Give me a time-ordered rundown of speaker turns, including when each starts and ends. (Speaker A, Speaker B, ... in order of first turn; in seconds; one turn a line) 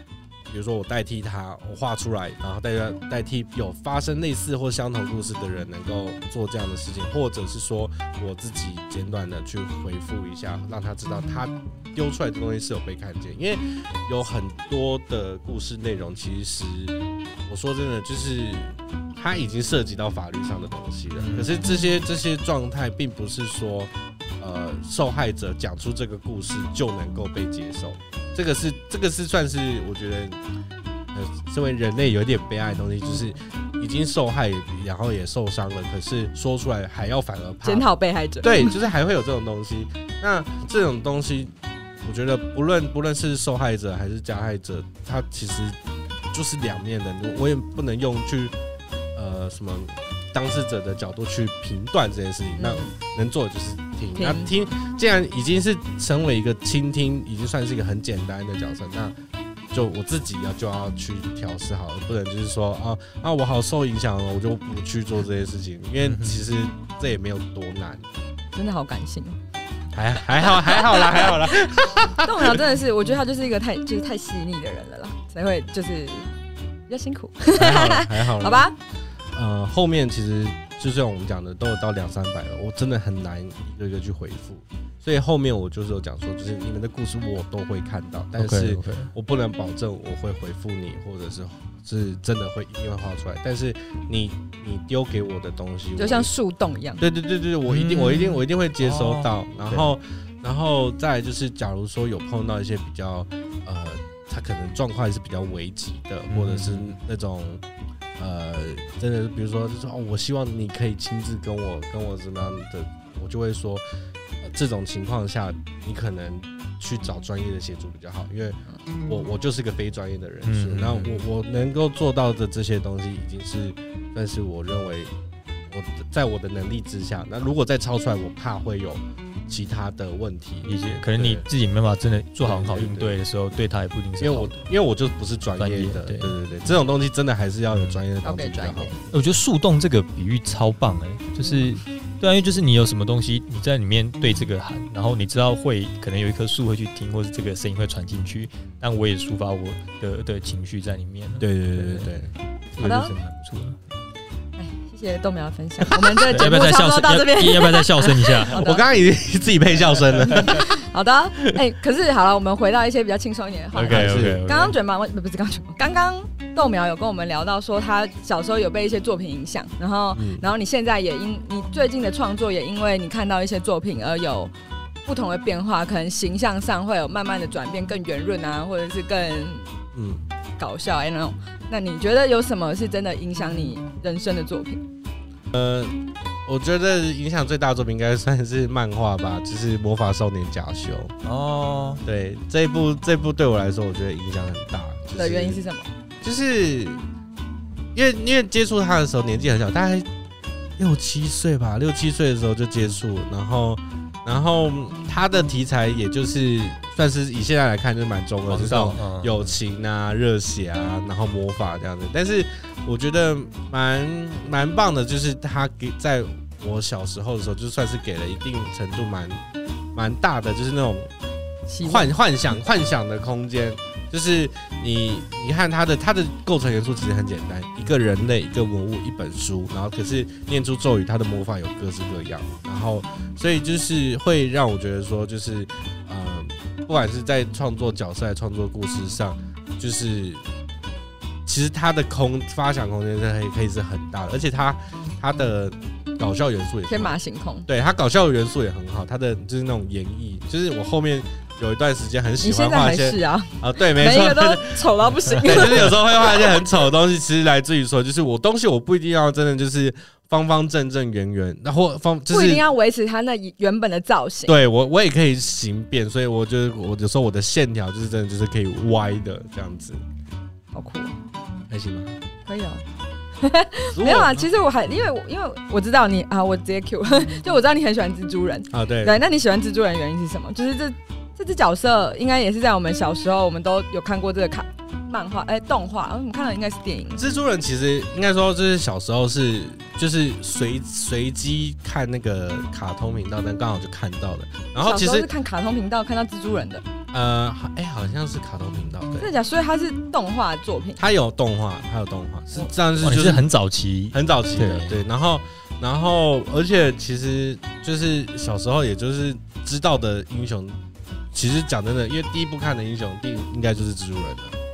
Speaker A: 0.5-17.0
Speaker A: 17.5-30.4
Speaker B: 21.2-21.7
Speaker A: 31.1-37.9
Speaker C: 37.6-38.8
Speaker A: 38.4-45.8
Speaker A: 46.3-48.5
Speaker A: 49.1-59.2
Speaker C: 52.6-52.9
Speaker C: 54.2-54.5
Speaker A: 59.7-68.0
Speaker B: 66.0-66.4
Speaker C: 68.5-69.4
Speaker A: 69.9-72.6
Speaker C: 70.4-71.5
Speaker C: 72.2-76.3
Speaker C: 76.9-78.8
Speaker A: 77.6-78.7
Speaker A: 79.3-96.3
Speaker B: 88.4-89.1
Speaker C: 96.0-97.0
Speaker A: 97.0-107.6
Speaker B: 97.7-99.9
Speaker B: 106.3-107.0
Speaker A: 108.2-113.8
Speaker A: 114.4-125.1
Speaker B: 120.5-121.2
Speaker A: 125.7-131.5
Speaker B: 130.7-134.7
Speaker A: 132.4-133.2
Speaker A: 134.2-139.0
Speaker B: 135.6-136.3
Speaker B: 137.7-138.0
Speaker C: 138.2-139.0
Speaker B: 139.1-152.1
Speaker A: 151.4-152.3
Speaker B: 152.8-153.8
Speaker C: 152.8-153.1
Speaker C: 154.6-158.8
Speaker A: 155.9-156.2
Speaker B: 156.3-158.6
Speaker A: 158.5-160.7
Speaker C: 160.4-174.5
Speaker B: 163.8-164.8
Speaker A: 163.8-164.4
Speaker A: 170.2-170.4
Speaker C: 175.1-179.7
Speaker A: 179.9-180.2
Speaker C: 180.6-184.8
Speaker A: 185.5-191.2
Speaker B: 191.2-192.0
Speaker A: 192.0-195.6
Speaker C: 195.2-195.9
Speaker A: 196.2-197.0
Speaker A: 197.9-200.1
Speaker A: 200.8-219.4
Speaker B: 208.5-209.6
Speaker A: 219.9-221.1
Speaker C: 221.7-222.1
Speaker A: 221.8-240.4
Speaker A: 241.5-262.6
Speaker C: 246.9-247.7
Speaker C: 252.4-256.7
Speaker C: 262.3-264.6
Speaker A: 264.5-270.0
Speaker C: 270.7-271.1
Speaker A: 271.7-272.1
Speaker C: 272.5-272.8
Speaker C: 273.4-287.2
Speaker A: 273.9-274.5
Speaker A: 278.7-279.2
Speaker A: 287.1-295.3
Speaker C: 294.8-296.9
Speaker A: 297.1-299.3
Speaker C: 299.2-301.0
Speaker A: 301.0-303.5
Speaker B: 303.0-305.0
Speaker A: 304.1-310.8
Speaker A: 311.3-314.6